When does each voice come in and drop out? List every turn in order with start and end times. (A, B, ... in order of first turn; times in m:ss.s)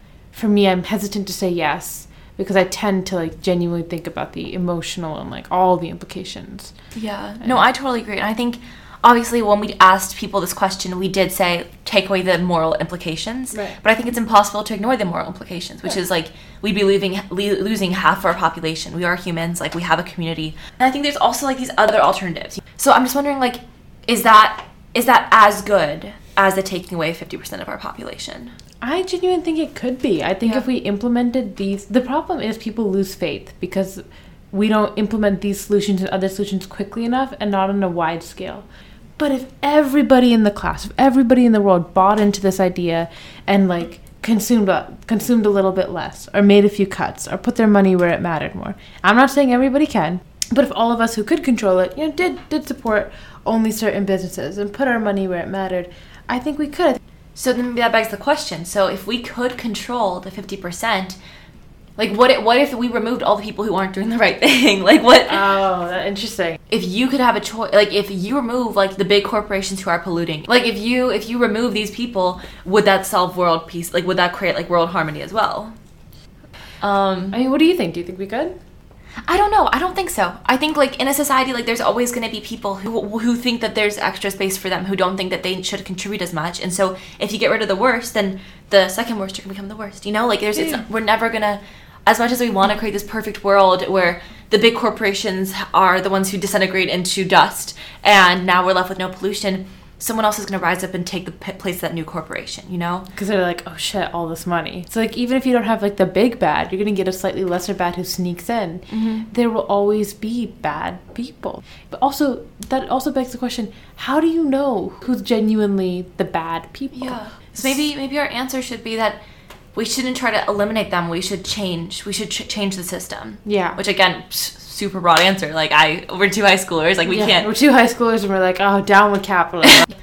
0:00.3-0:06.7 A
0:07.0-0:28.6 B
0:13.5-0:13.8 A
0:28.8-0:38.7 A
0:39.2-0:57.0 A
0:57.4-1:01.2 B
1:02.0-1:05.4 B
1:05.3-1:06.6 A
1:06.7-1:15.8 B
1:16.8-1:17.4 B
1:17.3-1:18.6 A
1:19.3-1:43.1 B
1:30.5-1:30.8 A
1:43.1-1:57.8 A
1:48.9-1:49.3 B
1:56.9-1:59.2 B
1:59.7-2:07.5 B
2:03.4-2:03.8 A
2:07.0-2:09.9 A